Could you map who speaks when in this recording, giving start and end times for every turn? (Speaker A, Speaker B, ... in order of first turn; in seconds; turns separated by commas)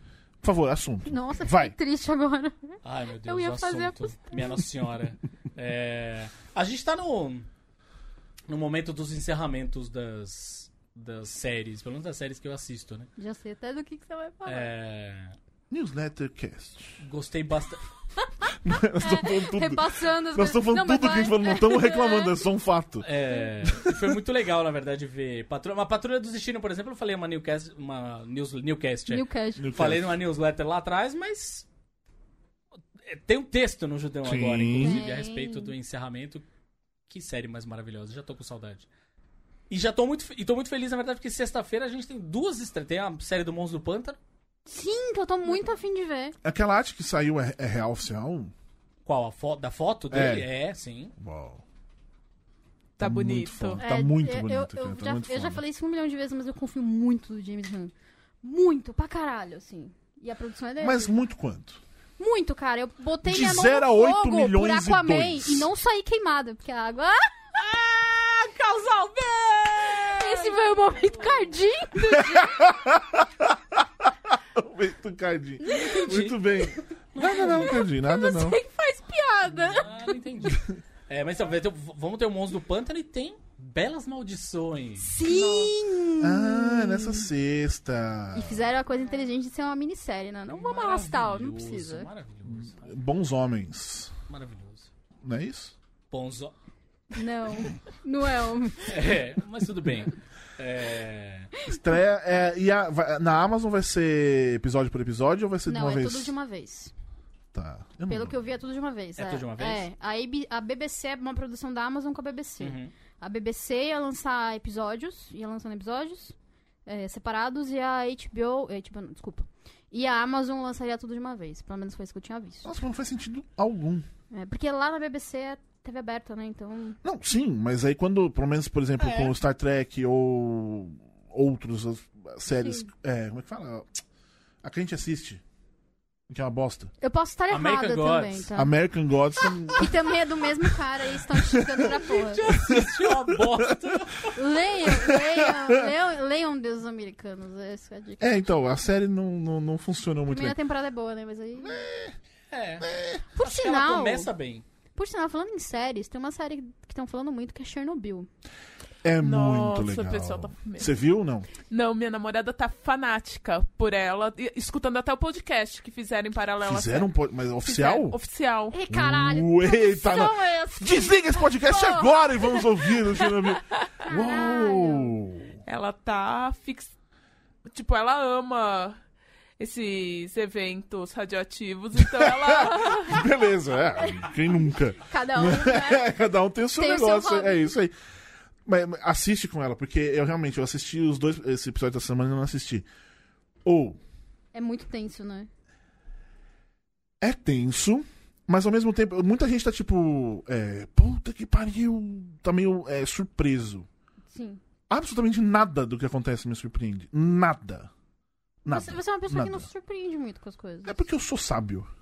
Speaker A: 0.4-1.7, Speaker B: 1.1-4.7, Speaker C: 2.8-7.5, Speaker C: 8.5-13.1, Speaker B: 13.2-14.7, Speaker C: 14.4-15.4, Speaker A: 15.7-17.0, Speaker C: 17.0-17.9, Speaker B: 18.3-22.4, Speaker A: 18.6-23.1, Speaker C: 23.0-31.7, Speaker A: 23.6-24.1, Speaker B: 29.1-29.6, Speaker A: 29.6-30.2, Speaker C: 33.0-36.5, Speaker A: 34.2-35.0, Speaker B: 34.8-35.7, Speaker C: 37.1-38.9, Speaker C: 39.7-44.2, Speaker B: 44.7-46.4, Speaker A: 46.4-48.5, Speaker C: 49.1-51.1, Speaker A: 50.1-50.5, Speaker A: 51.2-51.6, Speaker A: 53.0-55.6, Speaker D: 53.0-53.8, Speaker B: 53.8-61.1, Speaker A: 60.8-61.8, Speaker B: 62.2-67.3, Speaker A: 63.2-65.7, Speaker C: 67.5-70.6, Speaker B: 70.1-72.7, Speaker A: 72.2-78.6, Speaker B: 75.6-76.1, Speaker C: 75.7-76.4, Speaker C: 77.1-77.9, Speaker B: 78.0-79.9, Speaker C: 79.5-85.2, Speaker B: 85.0-87.3, Speaker D: 85.3-85.7, Speaker A: 86.2-88.7, Speaker B: 88.3-92.1, Speaker C: 90.5-92.9, Speaker A: 92.5-94.2, Speaker C: 94.3-94.9, Speaker A: 95.2-95.8, Speaker C: 96.1-96.5, Speaker B: 97.1-99.0, Speaker C: 98.9-101.5, Speaker A: 101.7-106.3, Speaker B: 105.7-106.9, Speaker A: 107.5-108.4, Speaker B: 108.1-122.7, Speaker C: 109.2-109.9, Speaker C: 112.6-112.9, Speaker A: 122.6-124.1, Speaker B: 124.3-127.0, Speaker A: 127.0-134.0, Speaker C: 129.0-129.3, Speaker B: 132.5-132.9, Speaker A: 134.6-135.4, Speaker A: 136.3-136.9, Speaker B: 137.0-138.8, Speaker C: 137.5-138.5, Speaker A: 138.6-139.9, Speaker B: 139.7-142.5, Speaker A: 141.3-141.9, Speaker C: 142.0-144.3, Speaker A: 142.5-144.0, Speaker B: 144.3-148.4, Speaker A: 144.8-145.5, Speaker A: 148.2-150.6, Speaker B: 150.3-151.8, Speaker A: 151.6-152.2, Speaker C: 152.5-154.7, Speaker A: 152.8-153.2, Speaker B: 153.3-154.3, Speaker B: 155.0-158.3, Speaker A: 159.0-161.5, Speaker D: 159.2-160.9, Speaker D: 161.6-167.1, Speaker A: 166.6-168.2, Speaker D: 167.6-168.8, Speaker B: 168.7-173.2, Speaker A: 168.9-175.6, Speaker B: 174.1-175.2, Speaker D: 175.7-176.9, Speaker D: 177.7-179.0, Speaker D: 179.6-183.2, Speaker A: 182.0-187.9, Speaker B: 184.1-184.3, Speaker B: 185.0-186.1, Speaker B: 186.8-187.7, Speaker A: 188.7-192.9, Speaker A: 193.7-194.0, Speaker B: 194.5-195.5, Speaker A: 197.2-203.9, Speaker B: 204.3-204.6, Speaker A: 204.9-207.9, Speaker A: 208.7-209.7, Speaker B: 208.7-211.1, Speaker A: 210.9-211.9